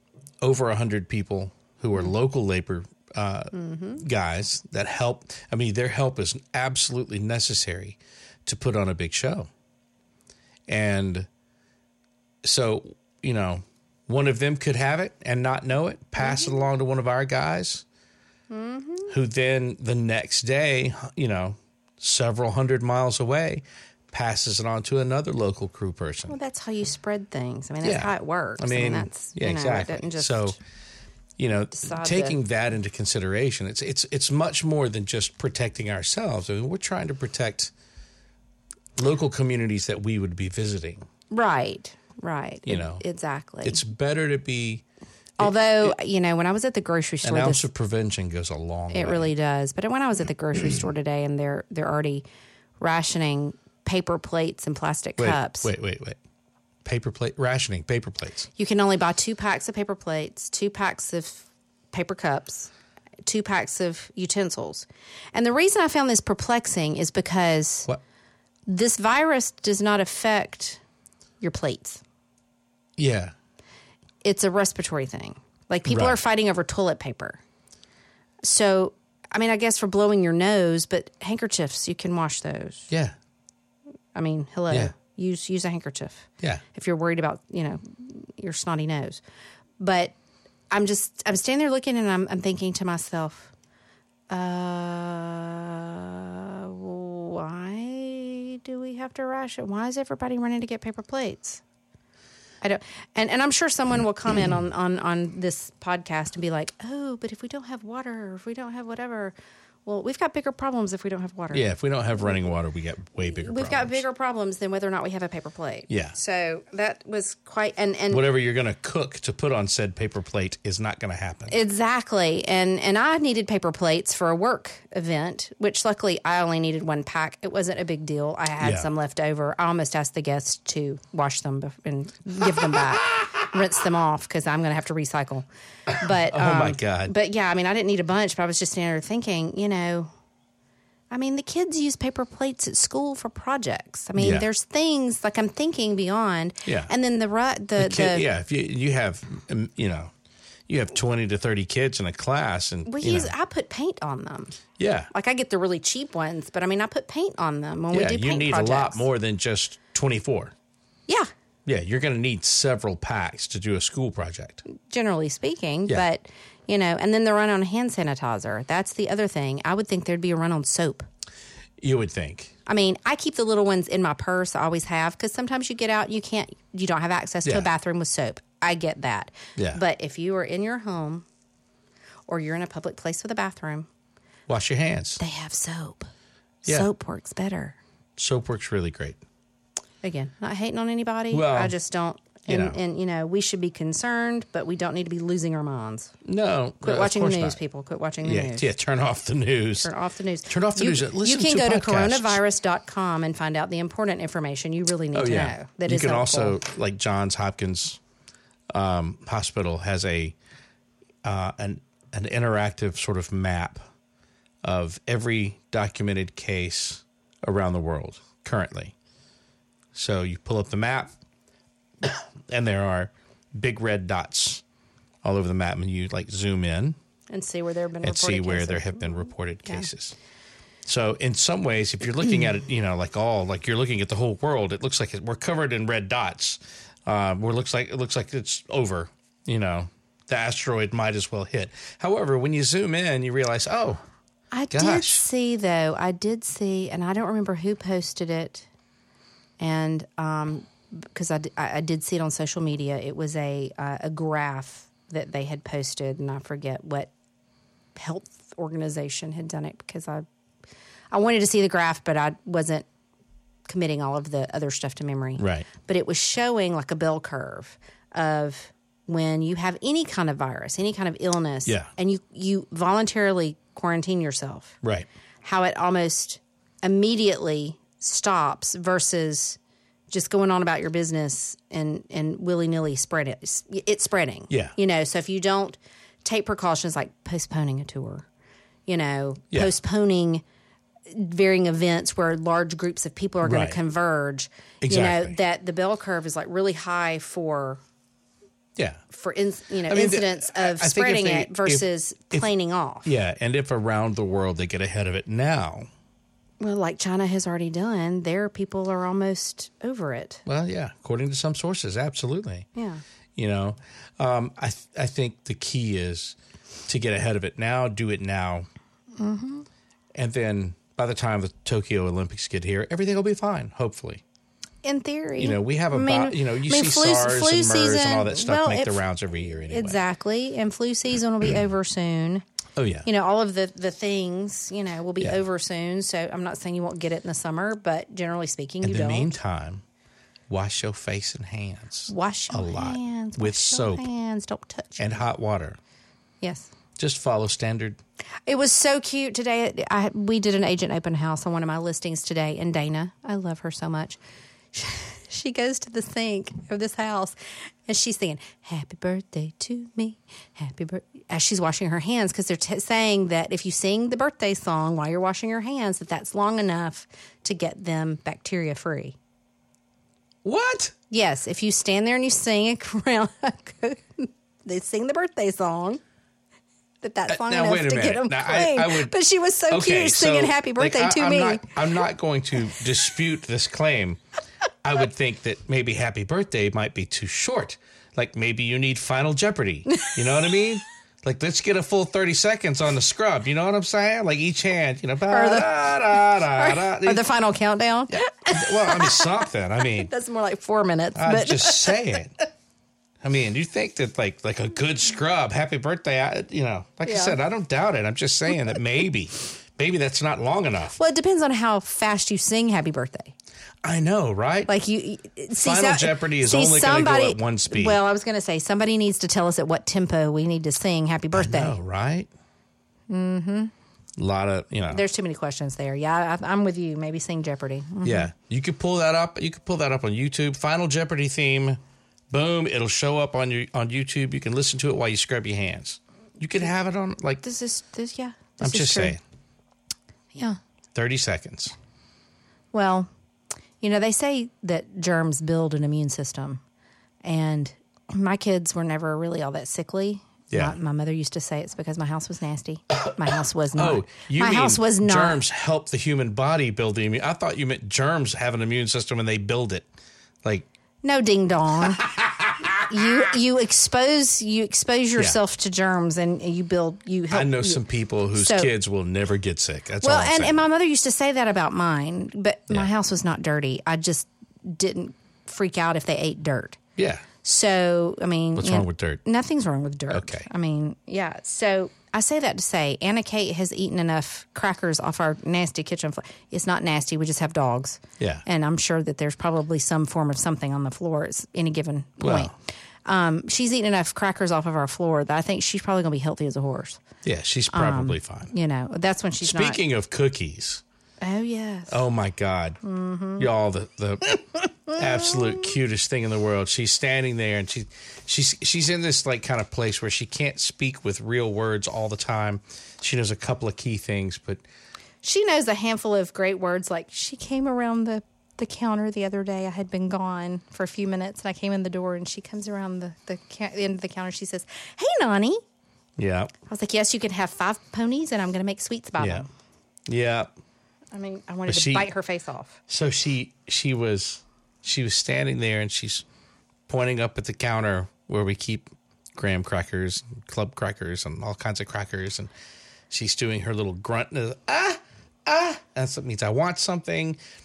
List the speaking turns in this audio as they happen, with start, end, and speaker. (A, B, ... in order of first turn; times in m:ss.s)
0:00.4-0:09.5 A
0:03.5-0:04.0 B
0:10.7-0:11.3 A
0:12.4-0:17.8 A
0:16.2-0:16.5 B
0:18.5-0:19.1 B
0:19.1-0:26.4 A
0:26.3-0:30.6 B
0:27.8-0:30.6 A
0:31.4-0:37.7 A
0:31.8-0:32.4 B
0:39.0-0:41.0 A
0:41.3-0:43.8 B
0:42.6-0:43.0 A
0:43.6-0:44.8 A
0:45.4-0:45.9 A
0:45.4-0:47.6 B
0:47.2-0:49.3 A
0:48.9-0:52.2 B
0:52.8-0:55.7 B
0:55.2-0:56.2 A
0:56.8-0:58.5 A
0:58.6-1:02.7 B
1:03.3-1:07.9 B
1:08.7-1:10.8 B
1:11.4-1:12.0 B
1:13.0-1:13.3 A
1:14.2-1:17.4 B
1:15.9-1:16.2 A
1:18.4-1:22.9 B
1:22.9-1:23.1 A
1:24.1-1:29.2 B
1:29.8-1:30.2 B
1:30.7-1:33.5 B
1:34.3-1:41.6 B
1:42.6-1:49.4 B
1:49.9-1:51.7 B
1:51.5-1:54.0 A
1:53.3-1:58.3 B
1:55.9-1:56.2 A
1:58.1-2:01.6 A
2:01.5-2:20.1 B
2:08.6-2:08.9 A
2:16.0-2:17.1 A
2:21.1-2:28.3 B
2:24.2-2:24.5 A
2:26.6-2:26.9 A
2:27.8-2:30.1 A
2:30.7-2:33.3 A
2:32.9-2:34.6 B
2:34.8-2:35.1 A
2:35.1-2:39.1 B
2:37.9-2:40.5 A
2:41.6-2:44.6 A
2:44.7-2:51.1 B
2:51.8-2:52.5 A
2:52.6-3:01.2 B
3:02.3-3:03.9 B
3:04.5-3:05.2 A
3:05.2-3:06.1 B
3:06.6-3:07.8 B
3:08.2-3:09.2 A
3:10.0-3:16.1 B
3:11.3-3:11.7 A
3:12.5-3:12.8 A
3:16.2-3:17.6 A
3:16.8-3:18.7 B
3:18.2-3:19.9 A
3:19.8-3:26.6 B
3:20.5-3:22.4 A
3:25.1-3:28.0 A
3:28.7-3:30.4 A
3:31.2-3:33.8 A
3:34.6-3:38.9 A
3:39.9-3:41.1 A
3:42.0-3:44.6 A
3:45.2-3:47.0 A
3:47.3-3:49.9 B
3:48.0-3:50.2 A
3:50.8-4:04.0 A
4:04.5-4:08.7 B
4:04.7-4:05.2 A
4:09.6-4:17.1 B
4:17.9-4:20.2 B
4:21.1-4:22.9 B
4:23.7-4:34.8 B
4:25.4-4:25.7 A
4:35.4-4:39.6 B
4:40.1-4:48.3 B
4:44.5-4:44.7 A
4:48.9-4:50.4 B
4:51.1-4:57.8 B
4:53.4-4:53.8 A
4:54.8-4:55.4 A
4:58.8-4:59.0 A
4:59.1-5:03.1 B
4:59.9-5:02.5 A
5:03.0-5:05.9 A
5:06.6-5:10.4 B
5:10.5-5:12.7 A
5:12.8-5:13.0 B
5:13.4-5:16.4 A
5:16.9-5:18.7 A
5:19.2-5:19.6 B
5:20.1-5:24.2 A
5:24.8-5:29.0 B
5:25.4-5:30.0 A
5:29.7-5:32.4 B
5:32.8-5:33.1 A
5:33.0-5:39.3 B
5:38.8-5:39.8 A
5:40.5-5:44.0 A
5:42.1-5:45.1 B
5:45.0-5:45.8 A
5:46.4-5:46.7 B
5:47.0-5:48.0 A
5:48.5-5:54.2 B
5:54.7-5:57.4 B
5:57.9-6:09.2 B
6:10.4-6:10.9 A
6:11.1-6:16.0 B
6:17.0-6:21.8 B
6:17.3-6:19.1 A
6:19.7-6:24.2 A
6:24.8-6:37.2 A
6:29.9-6:30.1 B
6:35.3-6:42.2 B
6:38.1-6:40.1 A
6:41.2-6:42.3 A
6:43.2-6:51.0 A
6:47.1-6:47.4 B
6:51.0-6:53.3 B
6:53.8-6:54.7 A
6:54.7-7:01.8 B
6:55.6-6:58.0 A
7:01.3-7:02.3 A
7:03.1-7:03.7 B
7:04.2-7:05.0 A
7:04.9-7:08.3 B
7:08.0-7:11.8 A
7:12.3-7:17.4 A
7:17.4-7:19.2 B
7:18.6-7:19.2 A
7:20.9-7:21.7 A
7:22.7-7:23.1 B
7:23.8-7:26.6 B
7:27.2-7:35.4 B
7:30.5-7:30.8 A
7:33.8-7:39.9 A
7:41.0-7:42.1 B
7:42.0-7:42.9 A
7:42.8-7:48.7 B
7:47.3-7:50.6 A
7:50.0-7:56.8 B
7:57.0-7:57.3 A
7:57.4-8:17.0 B
7:58.6-7:59.2 A
8:00.1-8:00.5 A
8:08.2-8:08.4 A
8:12.2-8:12.5 A
8:17.2-8:18.5 A
8:17.7-8:19.8 B
8:19.4-8:20.8 A
8:21.2-8:22.0 B
8:21.9-8:22.8 A
8:22.8-8:23.5 B
8:23.4-8:34.6 A
8:35.2-8:45.6 B
8:46.2-8:46.5 A
8:46.7-8:49.5 B
8:49.2-8:49.4 A
8:50.1-8:50.5 A
8:51.1-8:52.8 B
8:51.7-8:52.1 A
8:52.9-8:56.2 A
8:56.9-9:02.5 A
9:03.1-9:07.4 A